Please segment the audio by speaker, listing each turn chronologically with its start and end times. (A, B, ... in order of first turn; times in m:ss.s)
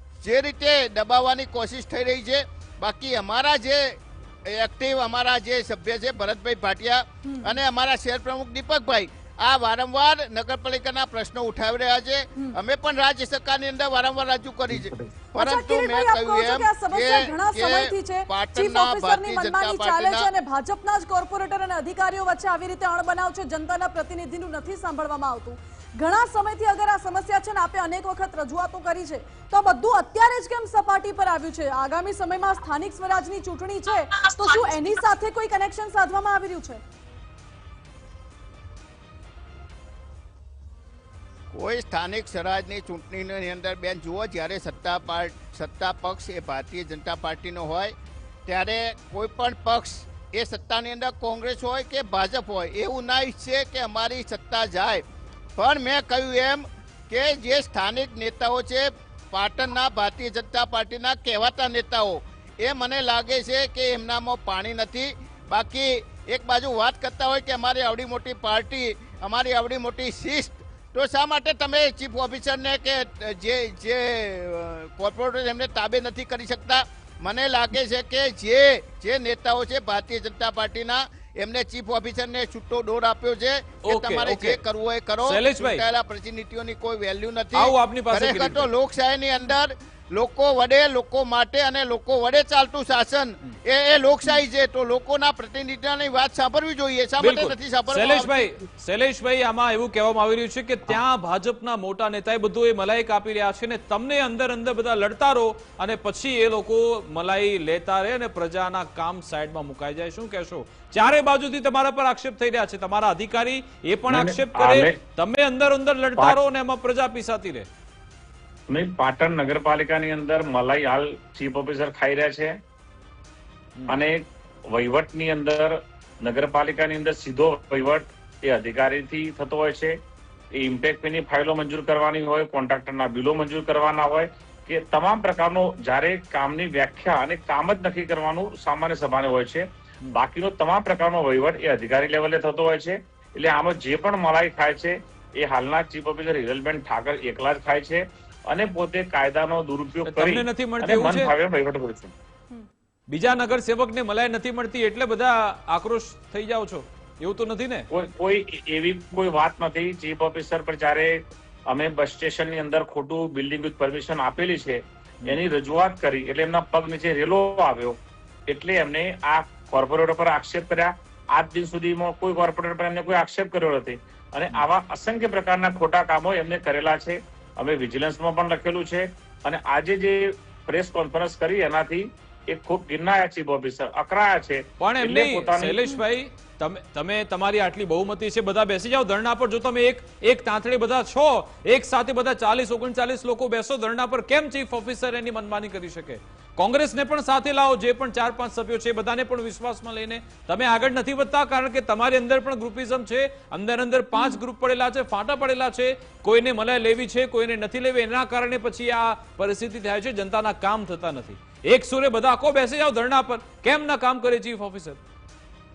0:00.2-0:20.3 A
0:07.2-0:07.6 B
0:15.4-0:36.8 B
0:41.5-0:47.9 A
0:48.5-0:55.0 A
0:55.6-1:38.5 A
1:23.9-1:24.6 C
1:25.2-1:25.8 C
1:27.5-1:28.7 C
1:37.2-1:57.7 C
1:54.1-1:54.9 D
1:58.7-2:02.6 D
2:03.9-2:10.0 D
2:10.5-2:32.1 D
2:30.1-2:31.3 C
2:33.1-2:37.9 C
2:37.9-3:05.8 D
3:04.8-3:35.0 C
3:24.1-3:24.4 B